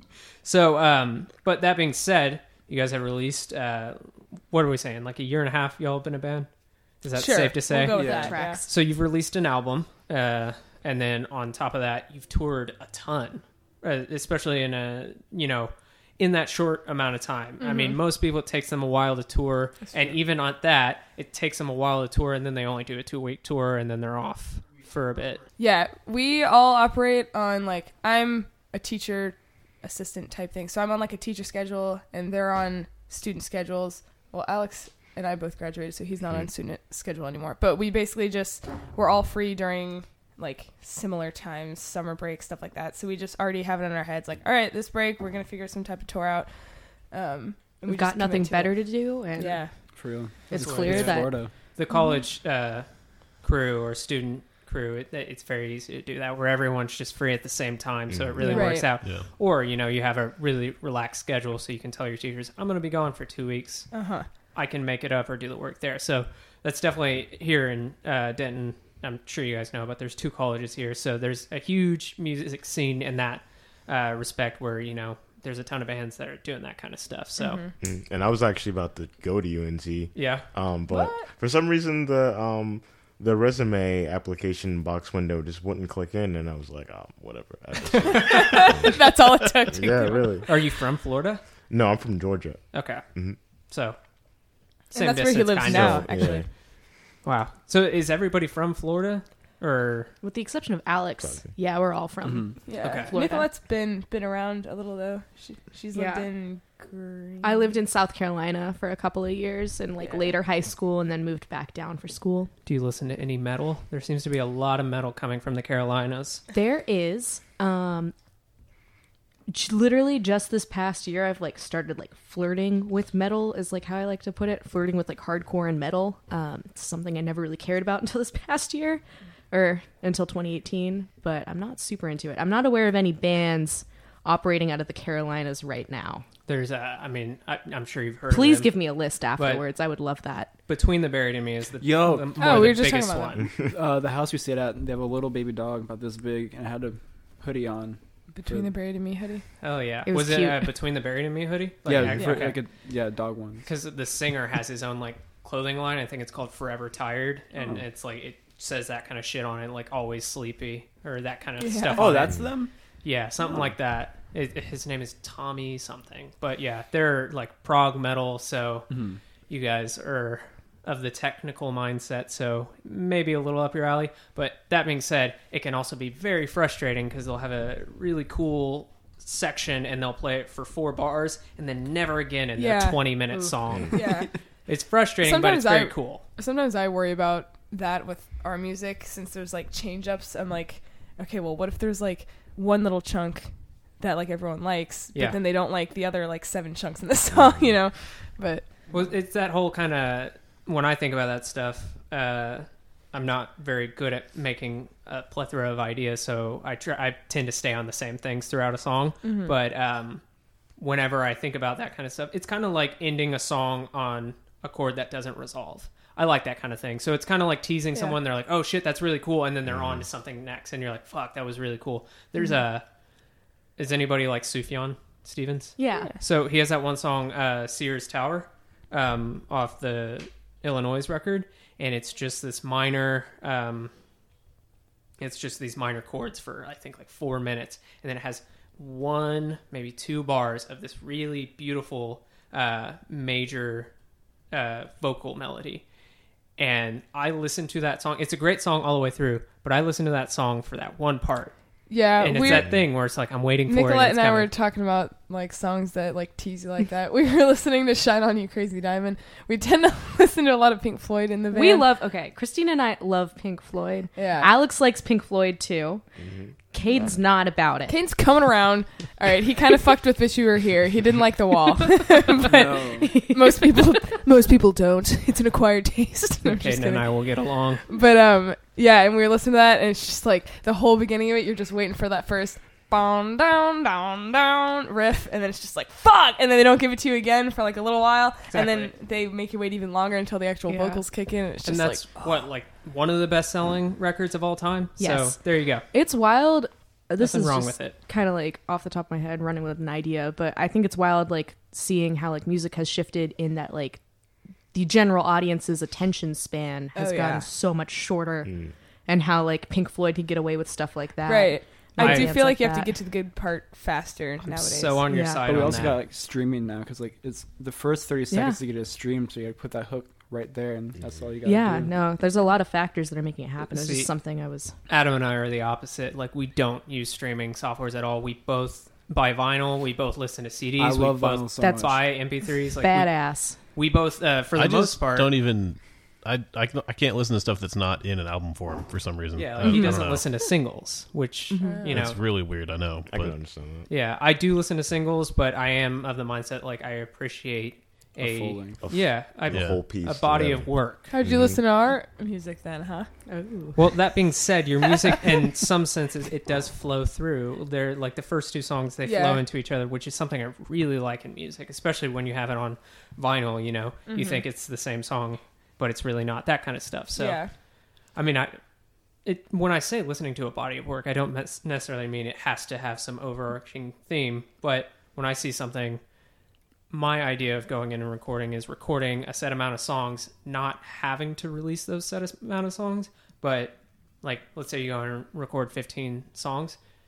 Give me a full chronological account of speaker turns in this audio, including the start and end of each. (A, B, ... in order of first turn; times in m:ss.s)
0:00.4-0:06.5 A
0:07.0-0:25.4 A
0:07.1-0:08.6 B
0:07.9-0:08.3 C
0:08.0-0:08.6 D
0:17.6-0:18.0 B
0:25.6-0:49.8 B
0:47.8-0:49.9 D
0:49.9-0:51.5 C
0:50.5-0:51.4 D
0:50.5-0:52.9 A
0:51.9-0:52.2 B
0:53.4-1:17.6 A
0:58.1-0:58.5 E
0:58.4-0:58.8 D
0:58.4-0:58.9 B
0:59.0-0:59.3 F
1:03.9-1:04.3 B
1:17.4-1:17.7 B
1:17.8-1:29.2 E
1:20.2-1:20.5 A
1:20.9-1:21.3 B
1:28.1-1:30.5 B
1:29.7-1:30.5 E
1:30.4-1:31.4 A
1:31.7-1:33.4 E
1:32.7-1:33.0 A
1:33.7-1:34.0 A
1:34.9-1:36.4 A
1:34.9-1:36.5 B
1:35.6-1:36.4 E
1:37.2-1:40.1 A
1:40.2-1:43.5 D
1:41.2-1:41.5 E
1:42.2-1:42.5 C
1:42.6-1:47.8 B
1:42.8-1:43.2 A
1:45.9-1:46.3 D
1:47.4-1:52.5 D
1:50.0-1:50.3 B
1:52.7-1:56.4 A
1:56.5-1:58.1 D
1:59.5-2:16.2 D
2:16.5-2:18.7 A
2:18.3-2:20.5 D
2:19.4-2:19.6 A
2:20.7-2:23.5 A
2:21.8-2:22.8 C
2:22.4-2:23.5 B
2:23.4-2:23.7 E
2:23.7-2:28.7 C
2:28.3-2:29.5 B
2:29.6-2:32.6 A
2:30.1-2:30.7 D
2:31.9-2:33.7 C
2:33.6-2:42.5 A
2:41.6-2:42.2 B
2:41.9-2:42.7 C
2:42.2-2:42.5 E
2:43.0-2:49.0 A
2:48.9-2:49.2 C
2:49.5-3:06.2 A
3:02.6-3:03.1 B
3:03.9-3:04.3 B
3:05.2-3:18.7 B
3:17.3-3:17.7 E
3:18.9-3:30.2 A
3:29.2-3:29.5 B
3:30.8-3:42.8 A
3:39.6-3:40.0 E
3:43.8-3:53.9 A
3:45.8-3:46.1 D
3:55.2-4:03.9 A
4:04.5-4:05.8 A
4:06.6-4:11.5 A
4:11.9-4:12.7 B
4:12.2-4:14.5 A
4:12.5-4:12.8 E
4:13.7-4:21.9 B
4:21.5-4:26.0 D
4:24.2-4:24.5 B
4:26.2-4:26.5 E
4:26.7-4:28.0 D
4:27.9-4:37.3 B
4:32.4-4:33.1 C
4:33.0-4:33.8 D
4:36.4-4:37.8 A
4:37.9-4:52.4 B
4:48.5-4:48.9 A
4:50.7-4:51.0 D
4:51.6-4:55.8 A
4:55.0-5:04.0 D
4:57.2-4:58.0 A
5:04.7-5:08.6 D
5:07.0-5:07.5 B
5:08.5-5:08.7 E
5:09.1-5:12.9 D
5:11.2-5:15.1 B
5:12.0-5:12.4 A
5:14.4-5:16.0 A
5:15.1-5:15.7 D
5:15.5-5:21.9 C
5:18.3-5:18.6 D
5:21.4-5:24.7 D
5:23.7-5:24.1 A
5:24.9-5:35.3 A
5:30.8-5:32.0 C
5:31.6-5:31.9 D
5:32.8-5:33.6 D
5:34.5-5:40.3 F
5:39.4-5:42.2 A
5:41.5-5:41.9 D
5:41.6-5:42.1 B
5:41.9-5:43.4 F
5:43.1-5:43.9 E
5:43.9-5:51.1 A
5:48.2-5:48.8 C
5:48.8-5:51.6 E
5:49.5-5:49.9 F
5:51.1-5:53.1 B
5:53.3-5:53.8 D
5:53.8-6:07.5 A
5:59.0-5:59.4 B
6:04.1-6:04.4 B
6:07.2-6:07.5 B
6:08.2-6:08.6 A
6:09.2-6:16.0 A
6:16.9-6:26.8 A